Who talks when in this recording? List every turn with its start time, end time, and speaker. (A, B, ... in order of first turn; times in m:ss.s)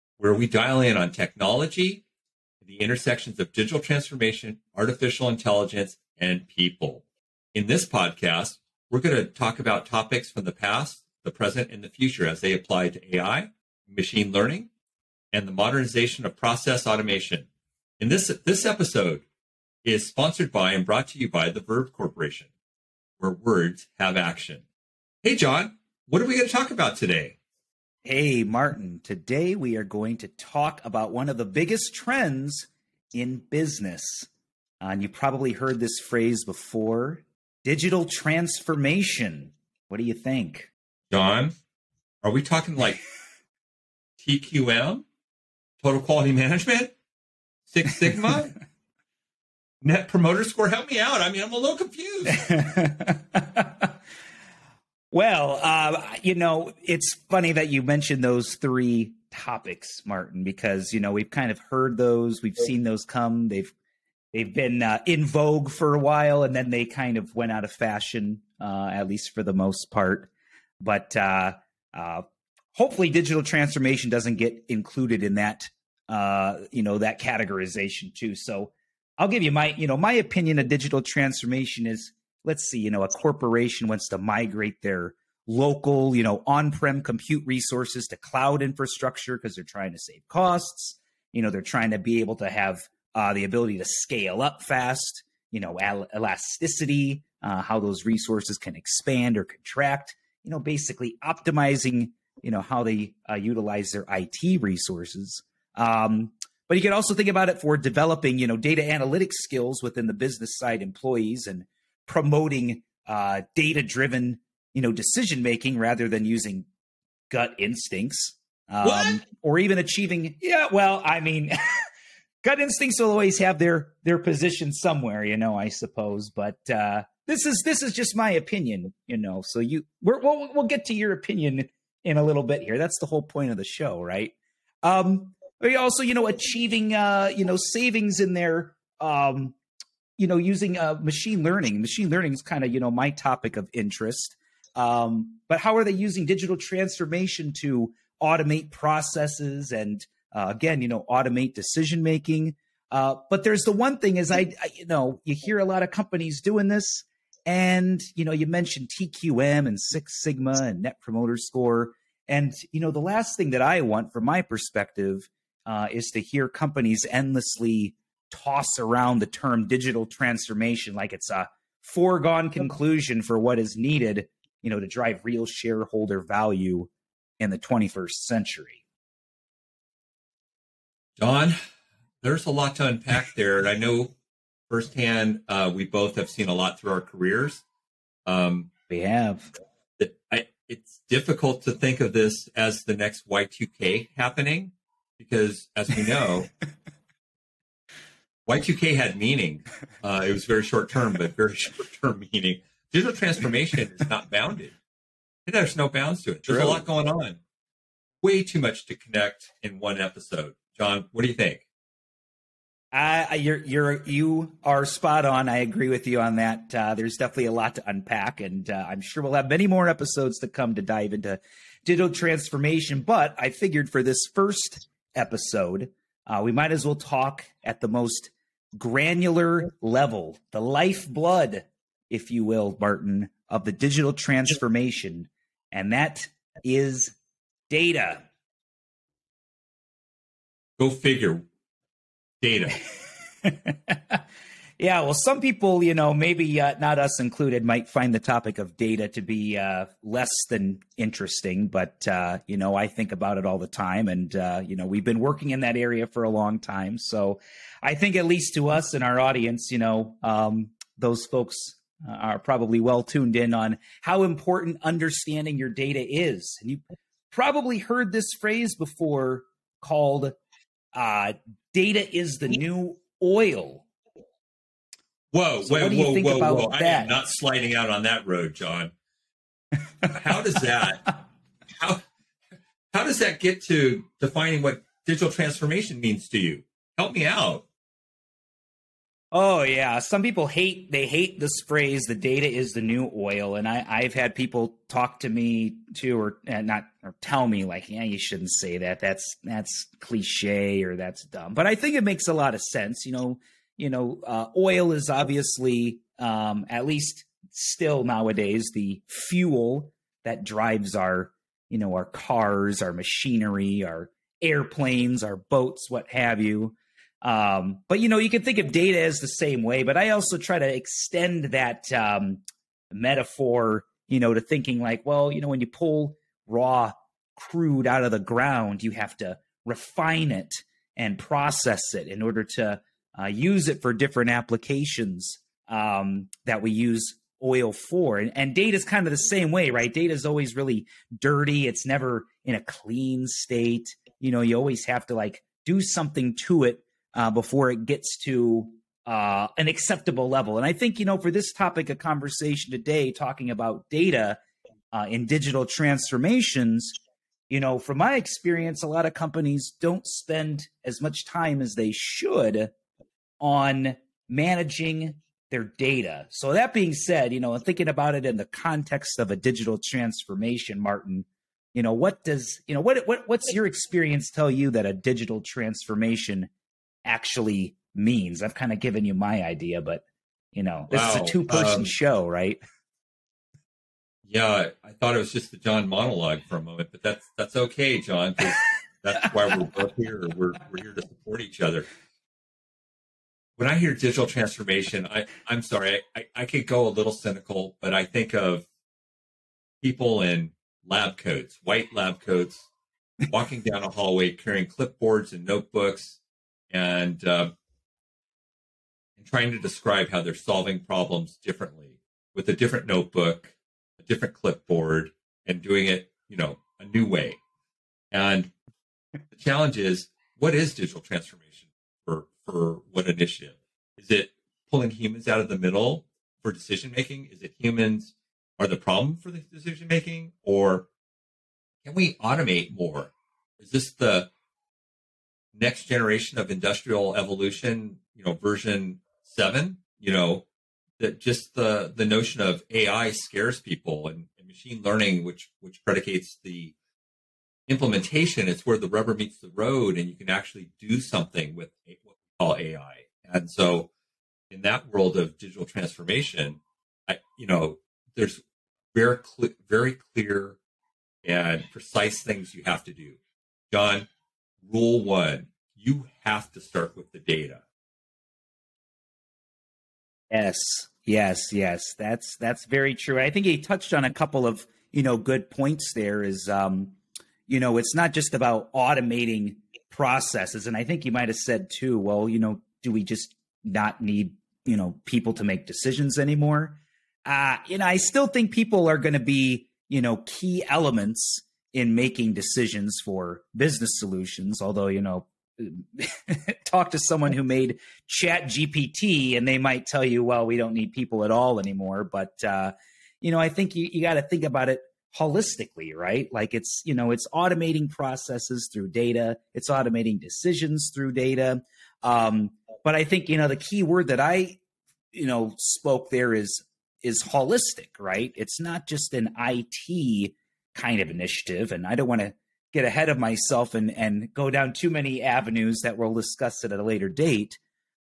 0:00.2-0:02.0 A
0:02.6-0:14.7 A
0:15.3-0:17.5 A
0:18.0-0:19.2 A
0:19.8-0:22.5 A
0:23.2-0:24.6 A
0:25.2-0:27.4 A
0:28.0-0:34.3 B
0:34.8-0:40.7 B
0:41.1-0:41.5 A
0:42.2-0:43.0 A
0:44.2-0:45.0 A
0:45.8-0:46.9 A
0:47.7-0:48.6 A
0:49.8-0:52.6 A
0:52.4-0:53.9 B
0:55.1-1:03.7 B
1:04.3-1:12.2 B
1:12.8-1:56.7 B
1:57.3-2:01.5 B
1:58.8-1:59.2 A
2:02.4-2:19.6 B
2:20.2-2:58.8 B
3:01.2-3:01.6 A
3:02.2-3:04.2 A
3:04.7-3:07.6 A
3:08.2-3:08.7 A
3:08.9-3:09.5 B
3:10.0-3:16.5 A
3:18.5-3:24.8 A
3:25.5-3:27.4 A
3:26.5-3:26.8 B
3:28.2-3:31.6 A
3:32.9-3:57.1 B
3:57.7-3:58.2 B
4:00.8-4:01.5 A
4:02.4-4:02.8 A
4:03.4-4:04.2 B
4:04.8-4:30.4 B
4:30.9-4:33.9 B
4:35.3-4:38.9 A
4:35.6-4:37.2 B
4:40.0-4:41.1 A
4:42.9-4:47.7 A
4:49.3-5:54.4 B
5:54.9-5:57.0 B
5:57.5-6:02.7 B
6:03.4-6:16.5 B
6:17.0-6:22.6 B
6:20.9-6:21.9 A
6:24.2-6:31.9 A
6:33.6-6:38.7 A
6:39.8-6:42.7 A
6:43.2-6:47.5 A
6:49.2-6:57.4 A
6:58.1-6:58.5 A
6:59.3-7:10.9 A
7:11.8-7:14.3 A
7:15.6-7:20.4 A
7:21.0-7:26.8 A
7:27.7-7:33.9 A
7:34.5-7:38.4 A
7:38.9-7:40.6 A
7:41.2-7:43.2 A
7:43.7-7:44.1 A
7:44.6-7:47.6 A
7:50.3-7:57.0 B
7:57.5-8:34.6 B
8:35.1-8:47.6 B